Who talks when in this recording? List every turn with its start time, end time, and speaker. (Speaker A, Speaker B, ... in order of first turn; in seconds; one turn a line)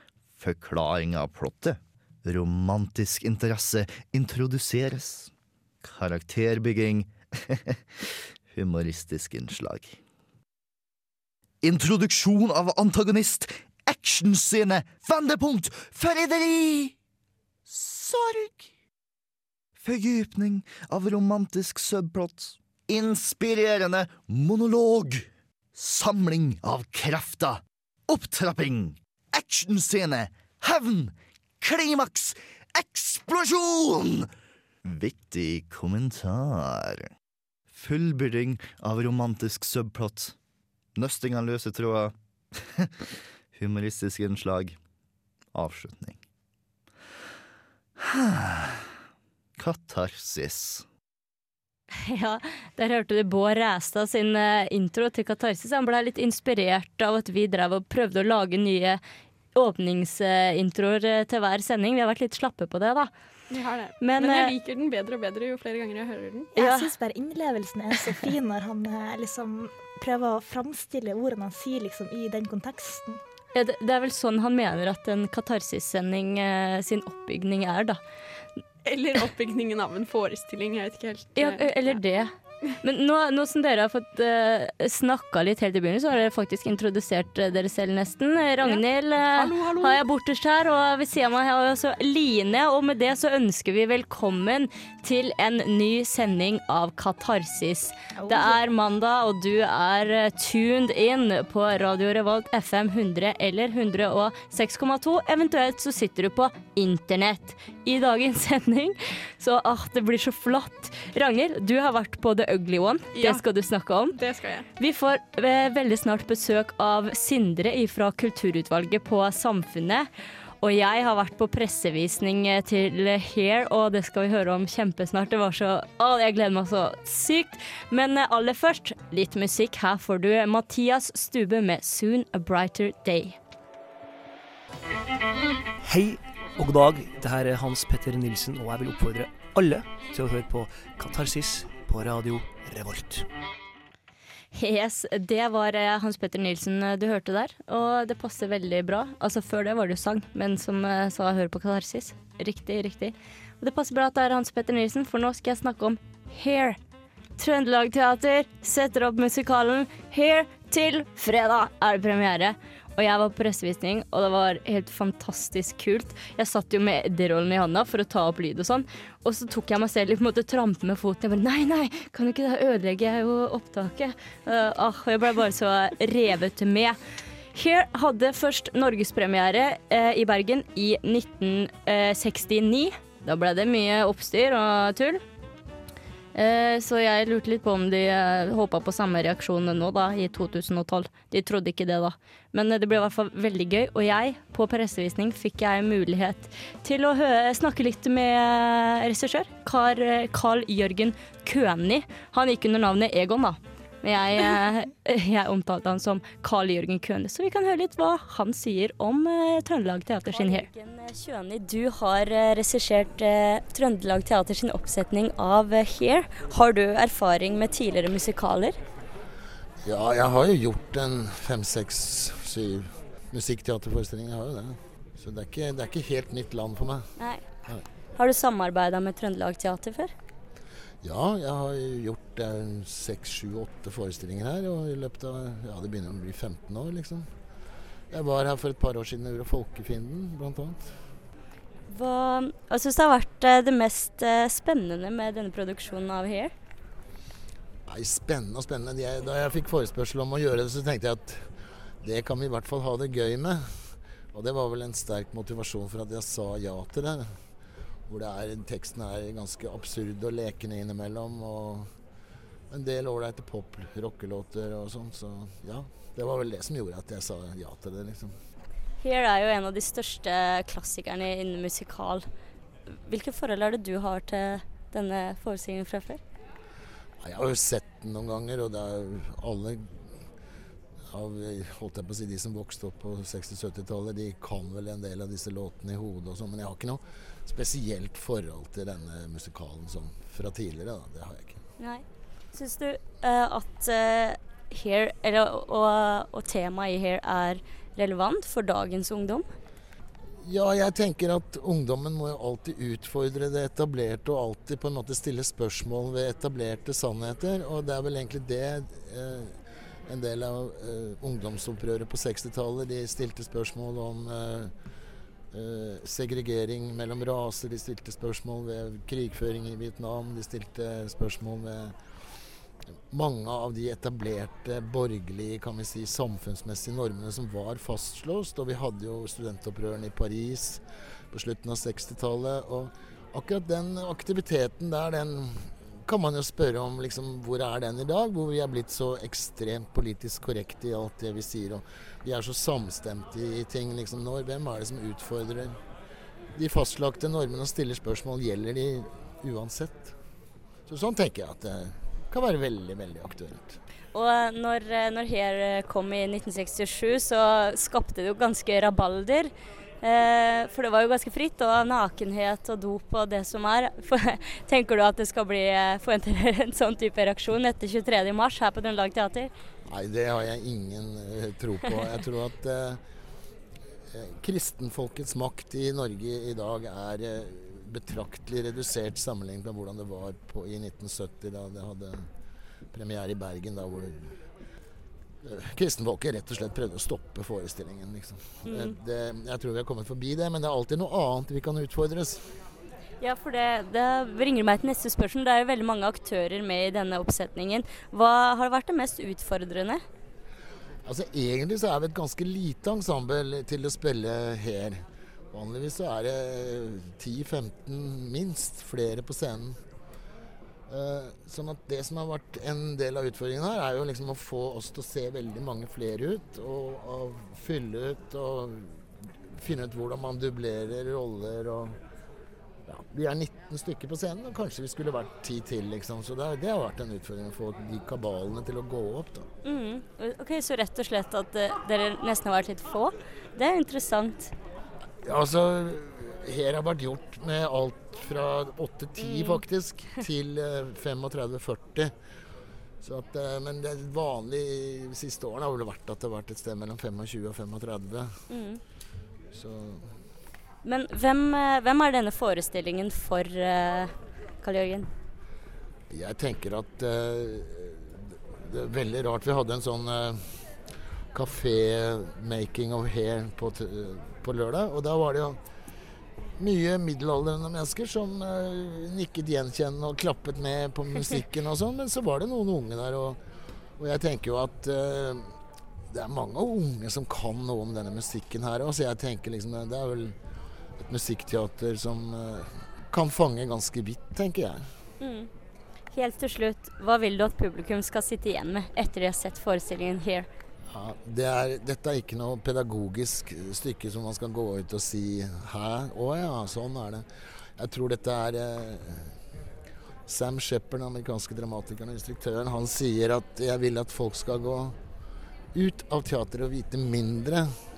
Speaker A: 0.4-5.3
Speaker A: 5.8-10.0
Speaker A: 11.6-16.9
Speaker A: 17.7-18.6
Speaker A: 19.8-34.3
Speaker A: 34.8-37.1
Speaker A: 37.7-40.3
Speaker A: 40.9-42.9
Speaker A: 43.5-44.8
Speaker A: 45.5-46.2
Speaker A: 48.0-48.9
Speaker A: 49.6-50.9
Speaker B: 51.9-59.0
Speaker B: 59.5-63.1
Speaker C: 63.5-66.5
Speaker B: 64.0-64.5
Speaker D: 66.5-73.2
Speaker B: 66.6-66.9
Speaker B: 73.5-78.0
Speaker C: 78.8-82.0
Speaker B: 81.3-82.3
Speaker B: 82.8-114.2
Speaker C: 88.6-90.0
Speaker D: 98.2-98.6
Speaker C: 113.1-113.5
Speaker C: 114.1-114.7
Speaker B: 114.8-120.1
Speaker B: 120.6-133.4
Speaker E: 135.8-143.3
Speaker B: 144.5-156.8
Speaker B: 157.4-177.0
Speaker B: 177.5-185.2
Speaker B: 186.3-218.8
Speaker F: 219.8-227.1
Speaker B: 227.2-227.4
Speaker B: 228.2-230.1
Speaker F: 231.0-237.3
Speaker F: 238.1-240.9
Speaker B: 241.9-246.5
Speaker F: 247.9-251.5
Speaker F: 252.0-257.3
Speaker F: 258.1-261.9
Speaker F: 262.7-268.3
Speaker B: 269.0-272.2
Speaker B: 272.9-276.2
Speaker F: 277.2-280.0
Speaker F: 281.1-291.6
Speaker B: 291.8-299.4
Speaker F: 300.4-309.5
Speaker F: 310.1-314.7
Speaker F: 315.5-321.9
Speaker F: 323.1-345.8
Speaker F: 346.6-350.1
Speaker F: 350.9-353.8
Speaker B: 354.1-369.5
Speaker F: 369.9-373.0
Speaker F: 374.1-382.3
Speaker F: 382.9-384.3
Speaker F: 385.4-392.6
Speaker B: 388.6-388.9
Speaker B: 393.2-400.0
Speaker F: 401.1-409.8
Speaker F: 410.9-422.0
Speaker F: 422.9-429.5
Speaker B: 429.6-434.5
Speaker F: 435.2-442.1
Speaker B: 439.2-439.6
Speaker F: 443.0-448.4
Speaker B: 448.5-448.8
Speaker F: 449.5-450.1
Speaker B: 450.8-455.1
Speaker F: 456.1-460.5
Speaker F: 461.3-465.6
Speaker F: 466.6-473.4
Speaker F: 474.0-475.6
Speaker F: 476.1-480.4
Speaker F: 481.0-484.8
Speaker B: 485.2-485.5
Speaker B: 486.1-490.5
Speaker F: 490.9-497.2
Speaker F: 497.8-499.3
Speaker F: 500.3-504.9
Speaker F: 505.7-507.7